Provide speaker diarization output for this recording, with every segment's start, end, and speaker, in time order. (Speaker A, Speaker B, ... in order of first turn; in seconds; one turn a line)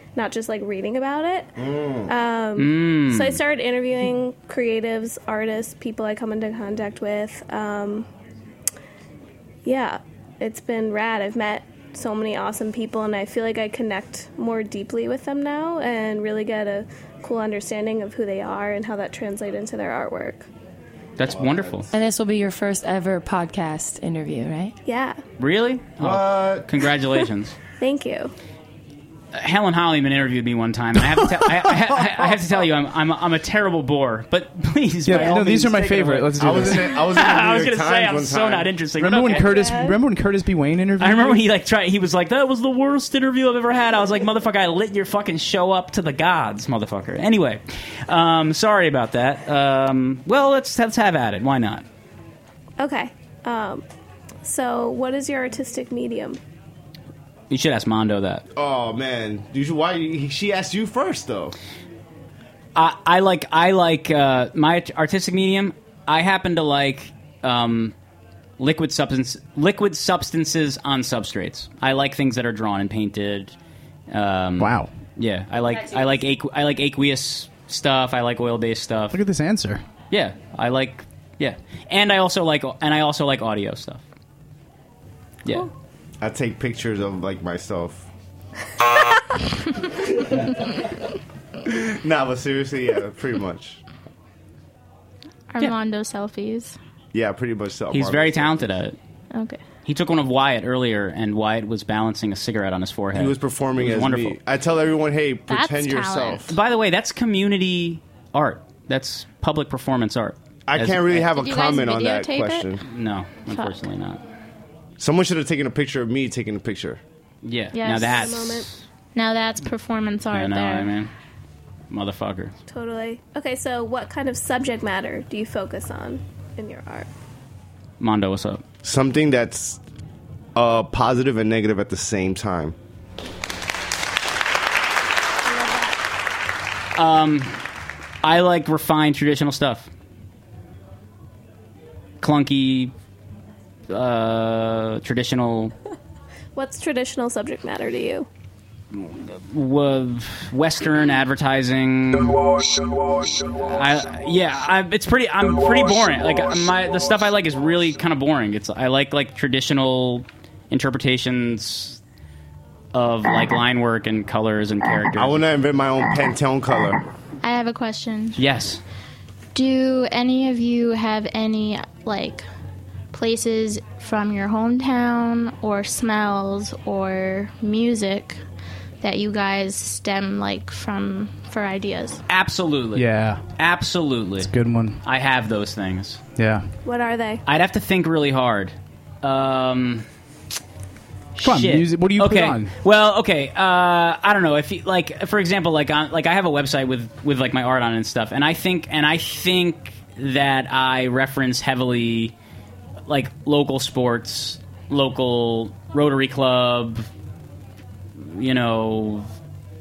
Speaker A: 0.1-1.5
Speaker B: 1.6-2.1
Speaker A: 2.1-8.1
Speaker C: 2.5-3.4
Speaker A: 9.6-20.4
Speaker C: 21.2-21.9
Speaker B: 21.3-21.8
Speaker D: 21.9-24.8
Speaker A: 24.8-25.2
Speaker C: 25.4-27.5
Speaker B: 26.0-26.6
Speaker A: 27.8-28.3
Speaker C: 29.3-39.6
Speaker E: 35.0-36.8
Speaker B: 36.4-38.7
Speaker E: 39.0-41.4
Speaker A: 39.2-40.0
Speaker C: 41.0-51.8
Speaker A: 52.8-53.8
Speaker A: 54.4-56.4
Speaker C: 57.5-58.4
Speaker B: 58.5-61.5
Speaker C: 62.8-67.9
Speaker C: 68.6-73.5
Speaker C: 74.1-79.2
Speaker E: 74.6-74.9
Speaker E: 79.1-79.8
Speaker C: 80.1-84.0
Speaker B: 86.2-88.0
Speaker B: 91.9-93.8
Speaker F: 95.5-96.8
Speaker B: 97.1-98.7
Speaker C: 97.9-99.0
Speaker F: 99.3-99.6
Speaker C: 99.8-104.4
Speaker B: 103.1-106.5
Speaker F: 105.5-106.5
Speaker C: 106.5-111.3
Speaker B: 110.7-112.8
Speaker F: 111.2-112.7
Speaker C: 112.8-114.2
Speaker F: 113.5-113.8
Speaker B: 115.0-117.0
Speaker C: 117.4-118.8
Speaker F: 117.7-118.3
Speaker A: 118.0-118.7
Speaker F: 119.1-120.9
Speaker C: 120.3-121.1
Speaker C: 121.9-122.5
Speaker A: 122.7-127.1
Speaker C: 128.0-128.6
Speaker B: 128.8-129.8
Speaker B: 130.6-132.7
Speaker A: 135.5-135.9
Speaker C: 136.9-137.6
Speaker C: 138.2-139.9
Speaker C: 142.2-142.9
Speaker C: 143.9-145.7
Speaker A: 146.6-148.3
Speaker C: 148.9-152.4
Speaker C: 153.6-162.0
Speaker C: 162.9-165.4
Speaker B: 165.2-167.0
Speaker F: 167.4-168.4
Speaker C: 168.3-168.8
Speaker F: 169.5-172.4
Speaker F: 173.1-178.4
Speaker F: 179.0-182.2
Speaker C: 182.3-183.1
Speaker E: 182.9-183.4
Speaker C: 183.6-184.5
Speaker E: 184.4-185.0
Speaker C: 185.0-186.2
Speaker E: 186.4-186.7
Speaker A: 186.8-187.4
Speaker C: 187.4-190.0
Speaker C: 191.3-202.3
Speaker E: 191.4-192.7
Speaker C: 203.1-207.1
Speaker C: 208.2-209.3